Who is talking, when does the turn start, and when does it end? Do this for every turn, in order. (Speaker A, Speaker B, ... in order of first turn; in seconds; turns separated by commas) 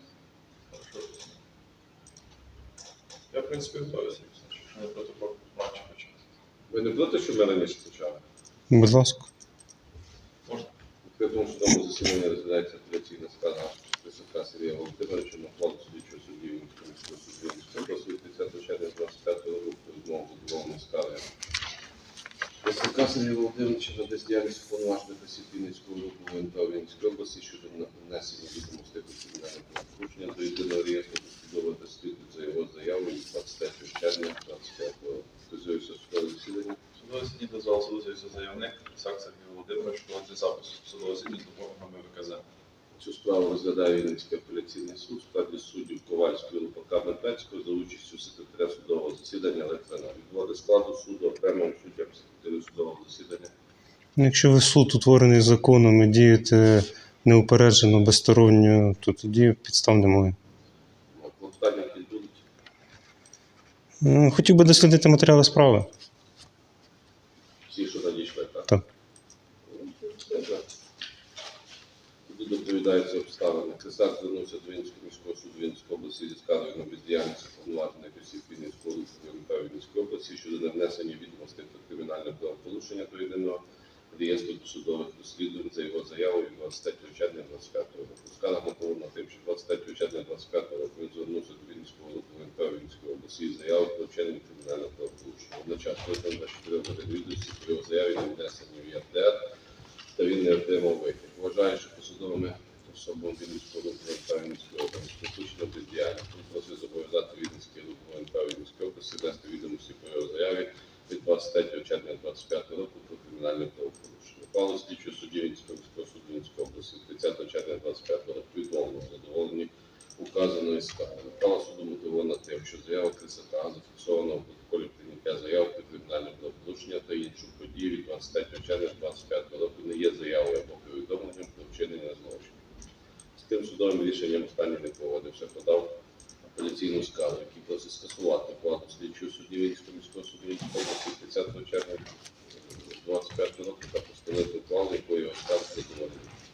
Speaker A: 0.7-1.3, Speaker A: 3.3-6.2, Speaker B: 6.7-8.2, Speaker C: 8.7-9.3, Speaker B: 11.0-21.3, Speaker B: 22.6-36.8, Speaker A: 37.0-42.4, Speaker B: 43.0-53.5, Speaker C: 54.1-60.4, Speaker B: 61.1-62.4, Speaker C: 64.0-65.9, Speaker B: 67.7-68.7, Speaker B: 69.7-70.7, Speaker B: 72.3-83.6, Speaker B: 84.1-99.4, Speaker B: 100.1-132.6, Speaker B: 133.3-135.9, Speaker B: 136.5-142.0, Speaker B: 142.9-146.3